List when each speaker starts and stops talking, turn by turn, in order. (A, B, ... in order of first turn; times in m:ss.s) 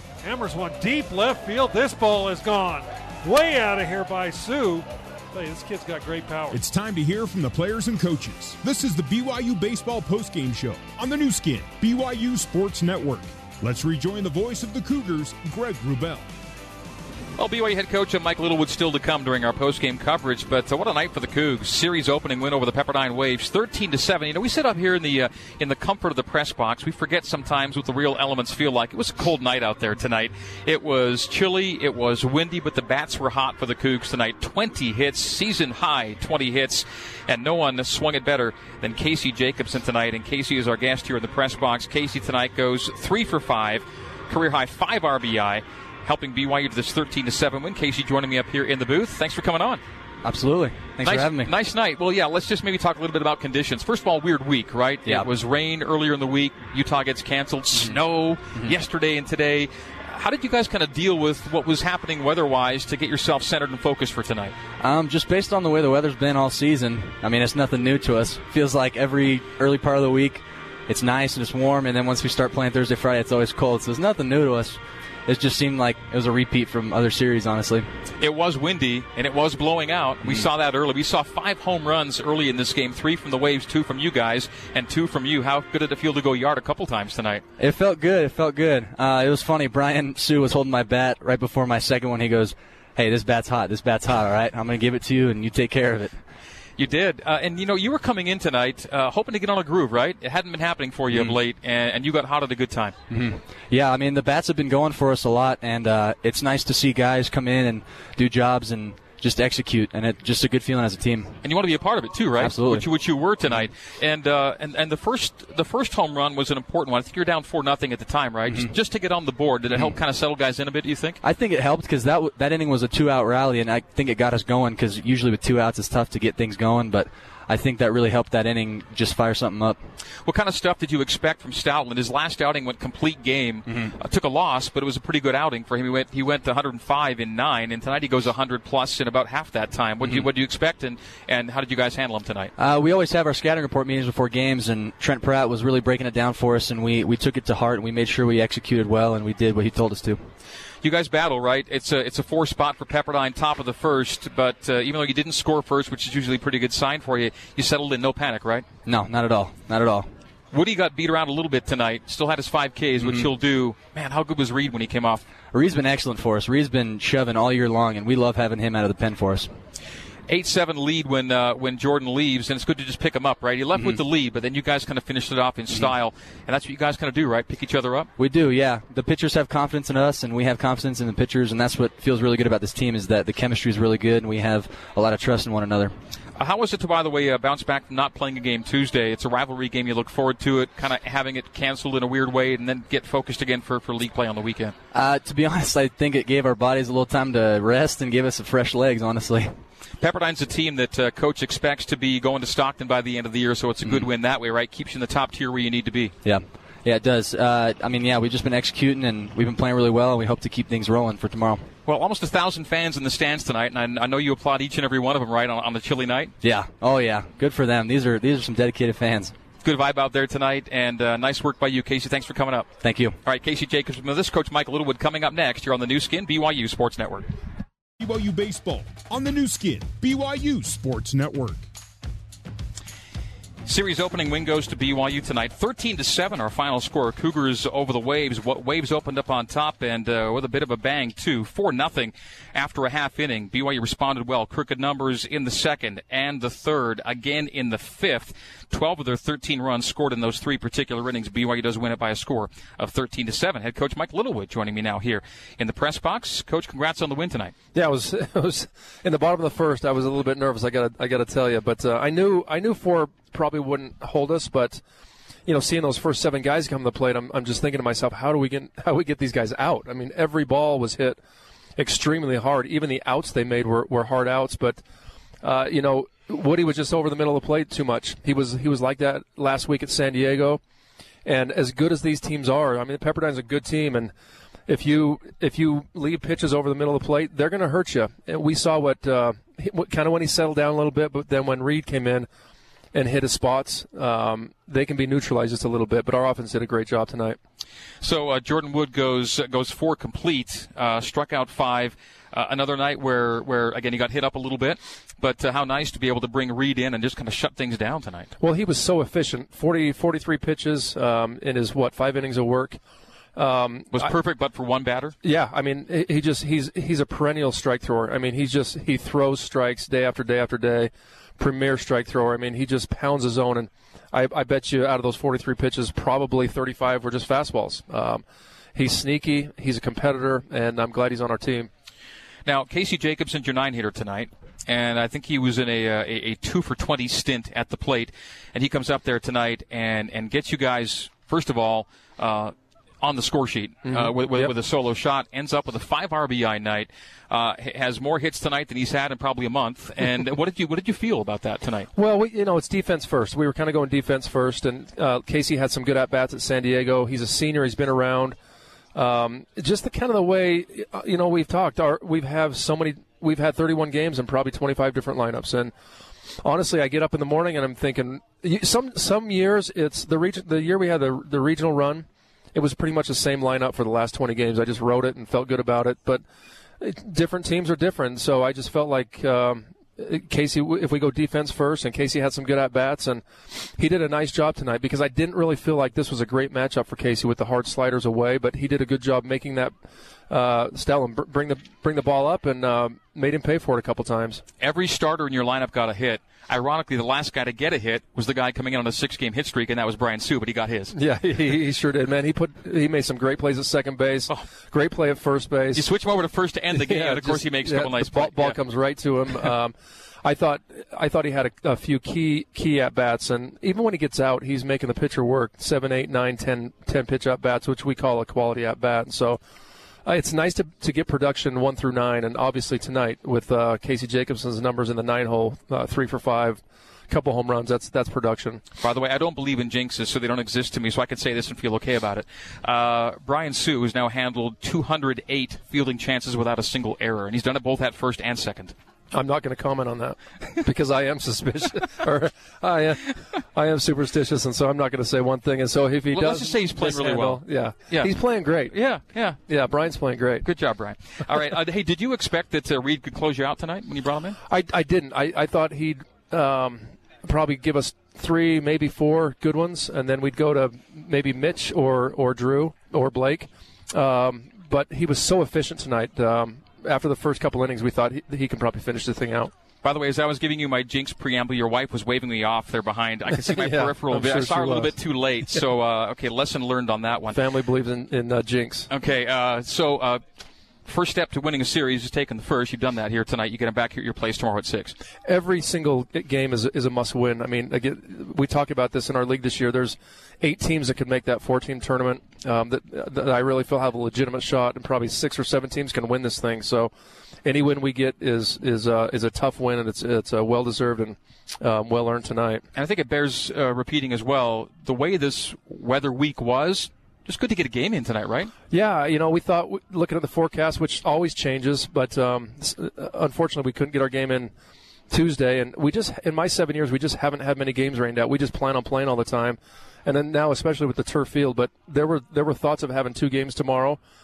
0:00.2-0:06.6 A
0:06.5-0:16.3 B
0:17.4-0:49.8 C
0:50.2-0:51.5 D
0:51.0-1:04.5 C
1:04.8-1:17.9 D
1:18.2-1:27.4 C
1:27.6-1:36.2 D
1:36.8-1:42.9 C
1:41.1-1:41.4 D
1:43.1-1:51.4 D
1:51.4-2:01.2 C
1:52.4-1:52.8 D
2:01.2-2:09.8 D
2:10.2-2:22.5 C
2:22.6-2:30.2 D
2:30.8-2:38.6 C
2:38.8-2:40.1 D
2:40.5-2:45.2 C
2:43.0-2:43.3 D
2:45.5-2:49.5 D
2:50.3-2:58.1 C
2:53.7-2:54.0 D
2:58.2-3:06.0 D
3:06.4-3:14.7 C
3:14.9-3:19.5 D
3:20.0-3:26.1 C
3:26.2-3:31.7 D
3:31.8-3:36.3 C
3:36.4-3:39.3 D
3:39.6-3:42.7 C
3:42.8-3:43.2 D
3:43.2-3:47.3 C
3:48.0-3:51.7 B
3:53.6-4:17.5 C
4:17.7-4:24.8 E
4:25.4-4:31.2 E
4:31.8-4:34.8 E
4:35.4-4:40.6 E
4:41.2-4:44.1 E
4:44.7-4:52.3 E
4:52.9-4:57.4 E
4:58.0-5:08.3 C
5:08.4-5:12.8 E
5:13.3-5:14.1 E
5:13.9-5:15.1 C
5:15.2-5:28.2 E
5:28.7-5:31.7 E
5:32.4-5:51.9 C
5:43.9-5:44.5 E
5:51.9-5:58.4 E
5:58.9-6:05.7 E
6:06.4-6:16.2 E
6:16.8-6:29.7 E
6:30.3-6:34.4 E
6:34.6-6:40.9 C
6:40.9-6:45.8 E
6:45.7-6:48.6 C
6:46.7-6:59.4 E
7:00.0-7:08.6 E
7:08.8-7:18.7 C
7:19.1-7:28.8 E
7:26.1-7:28.1 C
7:28.7-7:29.4 C
7:29.4-7:30.4 E
7:30.4-7:34.4 C
7:34.4-7:49.5 E
7:49.8-7:57.4 C
7:53.3-7:54.9 E
7:57.3-7:58.9 E
7:58.9-8:00.2 C
8:00.8-8:04.9 C
8:05.2-8:16.9 E
8:17.4-8:22.6 E
8:22.7-8:28.5 C
8:28.7-8:34.5 E
8:35.1-8:44.0 E